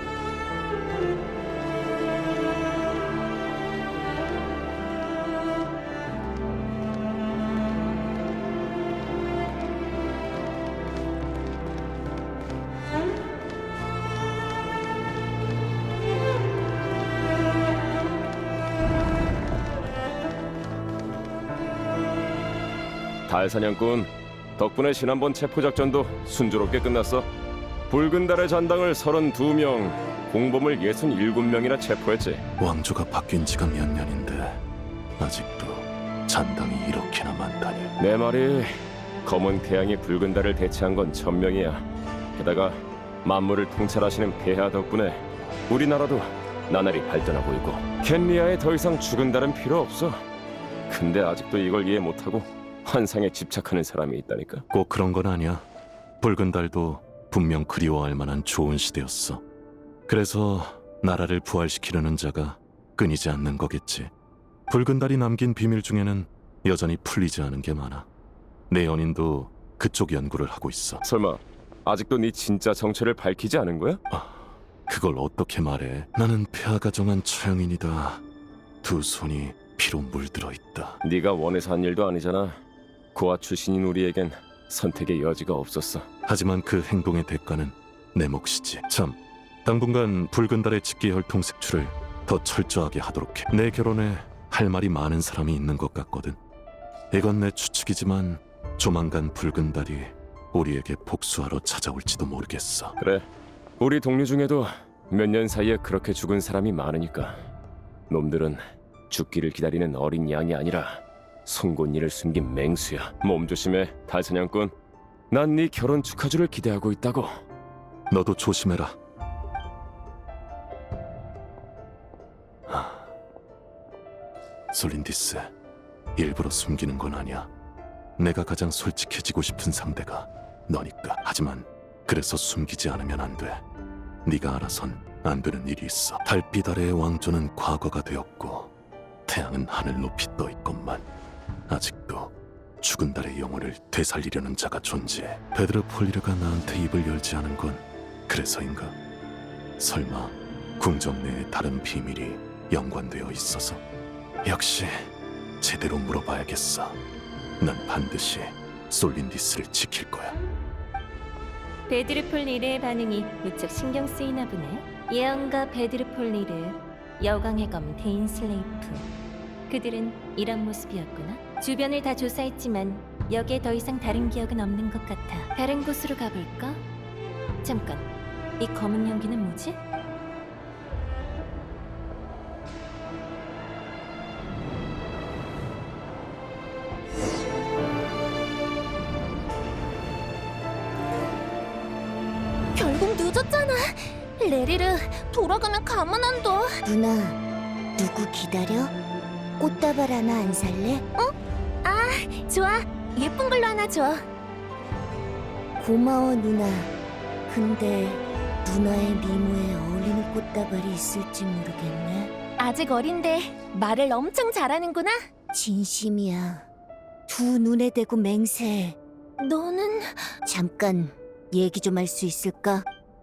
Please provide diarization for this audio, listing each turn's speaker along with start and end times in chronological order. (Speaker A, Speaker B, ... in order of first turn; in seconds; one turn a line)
Speaker A: 23.3-27.3
Speaker A: 27.9-32.4
Speaker B: 32.6-34.6
Speaker B: 35.2-37.9
Speaker A: 38.0-41.8
Speaker A: 42.4-50.2
Speaker A: 50.9-54.6
Speaker B: 54.7-55.6
Speaker B: 56.2-59.4
Speaker B: 60.1-64.1
Speaker B: 64.7-68.1
Speaker B: 68.7-71.0
Speaker A: 71.0-74.0
Speaker B: 74.1-78.2
Speaker B: 78.8-81.0
Speaker A: 81.0-82.6
Speaker A: 83.1-86.1
Speaker B: 86.3-96.4
Speaker B: 97.1-103.0
Speaker A: 103.0-103.3
Speaker A: 103.8-107.4
Speaker A: 108.1-114.7
Speaker A: 115.3-117.3
Speaker B: 118.1-119.0
Speaker B: 122.7-123.1
Speaker B: 124.7-125.5
Speaker B: 126.2-127.5
Speaker B: 128.2-133.6
Speaker B: 134.2-138.7
Speaker B: 139.3-141.0
Speaker B: 141.7-148.9
Speaker B: 149.8-153.8
Speaker B: 154.4-155.1
Speaker B: 155.6-157.0
Speaker B: 157.6-160.3
Speaker C: 161.9-169.1
Speaker C: 169.7-176.9
Speaker C: 177.6-179.8
Speaker D: 192.8-196.8
Speaker E: 196.8-197.4
Speaker E: 198.0-198.9
Speaker E: 199.6-201.0
Speaker D: 201.2-204.2
Speaker E: 205.8-206.9
Speaker E: 207.5-212.3
Speaker D: 212.6-215.2
Speaker E: 215.5-216.7
Speaker E: 217.3-219.0
Speaker D: 219.4-220.3
Speaker E: 220.4-222.8